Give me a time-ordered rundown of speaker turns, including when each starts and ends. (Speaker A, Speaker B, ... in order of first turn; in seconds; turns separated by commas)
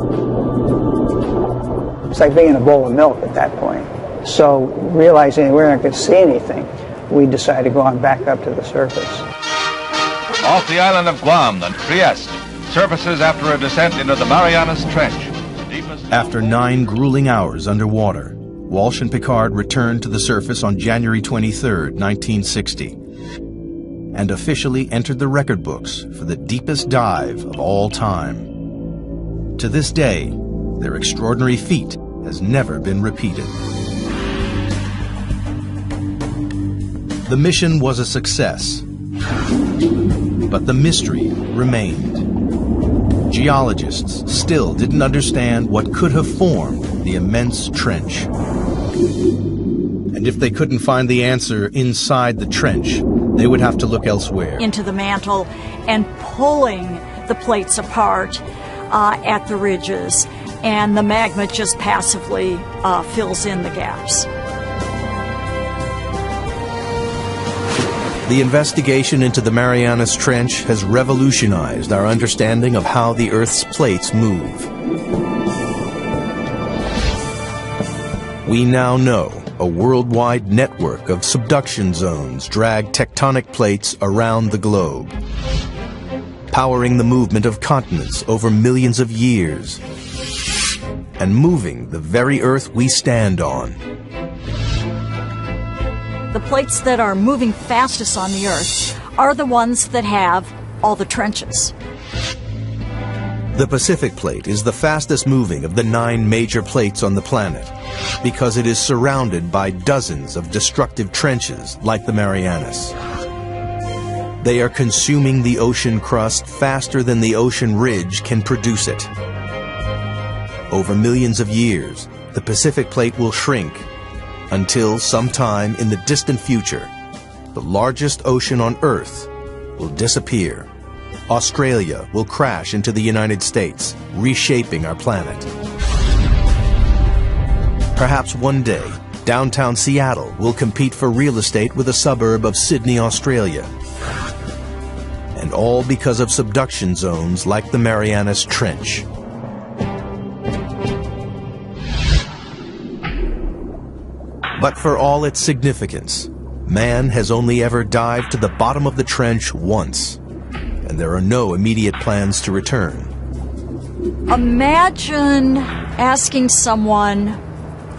Speaker A: 2.1-9.2, Speaker B: 10.4-15.9, Speaker C: 16.1-23.0, Speaker C: 24.1-28.5, Speaker C: 29.6-33.6, Speaker C: 37.2-38.8, Speaker C: 40.5-42.2, Speaker C: 43.3-48.3, Speaker C: 50.1-54.7, Speaker D: 54.6-64.3, Speaker C: 68.2-74.7, Speaker C: 78.4-85.1, Speaker C: 86.5-89.8, Speaker C: 91.2-93.8, Speaker D: 96.3-101.7, Speaker C: 103.5-113.0, Speaker C: 114.4-119.1, Speaker C: 120.7-123.9, Speaker C: 124.5-126.9, Speaker C: 127.5-130.7, Speaker C: 131.3-135.5, Speaker C: 137.9-143.7, Speaker C: 145.3-149.1, Speaker C: 154.6-160.2, Speaker C: 160.8-163.1, Speaker D: 164.3-167.4